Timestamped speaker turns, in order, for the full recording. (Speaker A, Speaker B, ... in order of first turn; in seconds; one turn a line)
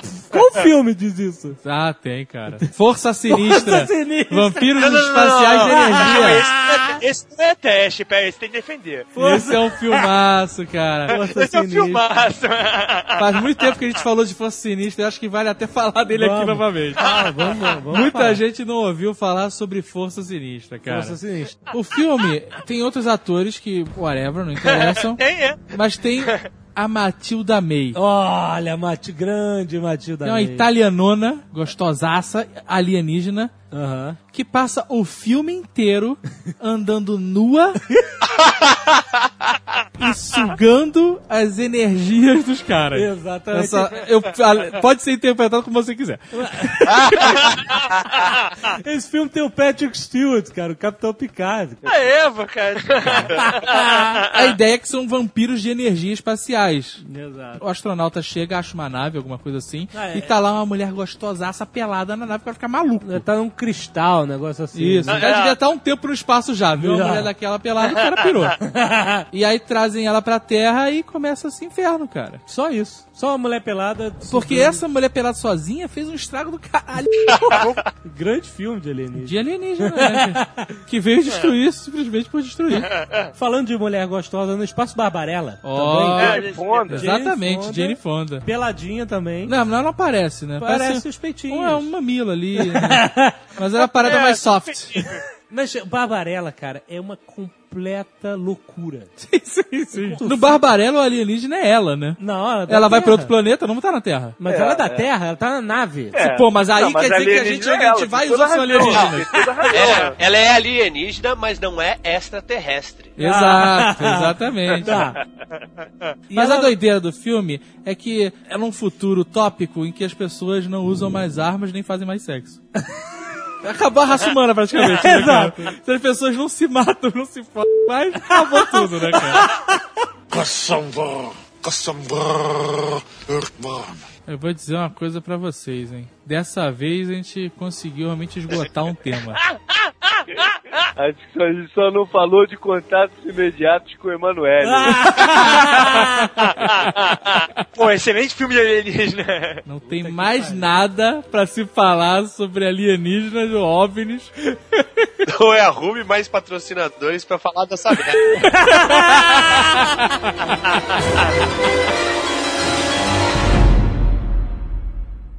Speaker A: 0.2-1.6
Speaker B: 1.6-6.4
Speaker A: 3.3-6.9
Speaker C: 4.8-9.1
Speaker A: 9.1-9.7
Speaker B: 9.2-11.2
Speaker A: 11.1-12.0
Speaker C: 11.1-13.4
Speaker B: 13.2-17.0
Speaker A: 16.1-18.4
Speaker C: 17.0-17.3
Speaker B: 17.9-21.2
Speaker A: 20.9-21.6
Speaker B: 21.7-28.0
Speaker C: 24.6-26.4
Speaker A: 27.9-30.7
Speaker B: 30.2-33.5
Speaker A: 33.7-34.2
Speaker B: 34.3-37.8
Speaker B: 39.9-47.4
Speaker A: 42.9-44.0
Speaker A: 46.3-47.4
Speaker C: 47.5-48.5
Speaker A: 48.7-51.8
Speaker C: 51.8-54.5
Speaker A: 53.4-54.2
Speaker B: 54.3-57.0
Speaker A: 57.0-57.6
Speaker B: 57.5-63.2
Speaker A: 59.9-60.3
Speaker A: 63.0-65.3
Speaker B: 64.7-68.6
Speaker C: 65.1-65.6
Speaker A: 66.8-67.3
Speaker C: 68.0-68.3
Speaker A: 68.6-69.2
Speaker B: 69.3-72.4
Speaker A: 72.5-74.8
Speaker B: 74.2-77.7
Speaker A: 77.5-80.7
Speaker B: 79.1-82.9
Speaker C: 82.9-83.2
Speaker A: 83.3-89.5
Speaker B: 85.6-88.5
Speaker D: 86.2-87.0
Speaker C: 86.2-86.9
Speaker B: 89.5-95.0
Speaker A: 90.6-91.9
Speaker A: 92.6-93.4
Speaker C: 93.8-95.2
Speaker A: 95.5-99.1
Speaker B: 99.2-104.4
Speaker A: 99.9-100.6
Speaker A: 102.2-103.3
Speaker A: 104.4-106.2
Speaker D: 104.4-105.1
Speaker D: 106.1-110.2
Speaker B: 106.2-109.3
Speaker E: 108.8-109.1
Speaker A: 109.4-110.0
Speaker E: 109.7-113.2
Speaker B: 113.2-115.1
Speaker A: 113.2-115.2
Speaker A: 116.3-116.7
Speaker B: 116.3-122.6
Speaker B: 123.6-129.5
Speaker A: 124.8-125.7
Speaker A: 128.3-129.8
Speaker F: 130.3-134.0
Speaker B: 134.2-139.4
Speaker D: 141.0-145.2
Speaker A: 144.6-146.2
Speaker C: 145.1-149.6
Speaker B: 149.6-155.1
Speaker A: 149.8-150.8
Speaker E: 155.2-158.5
Speaker B: 158.4-159.2
Speaker A: 158.7-159.4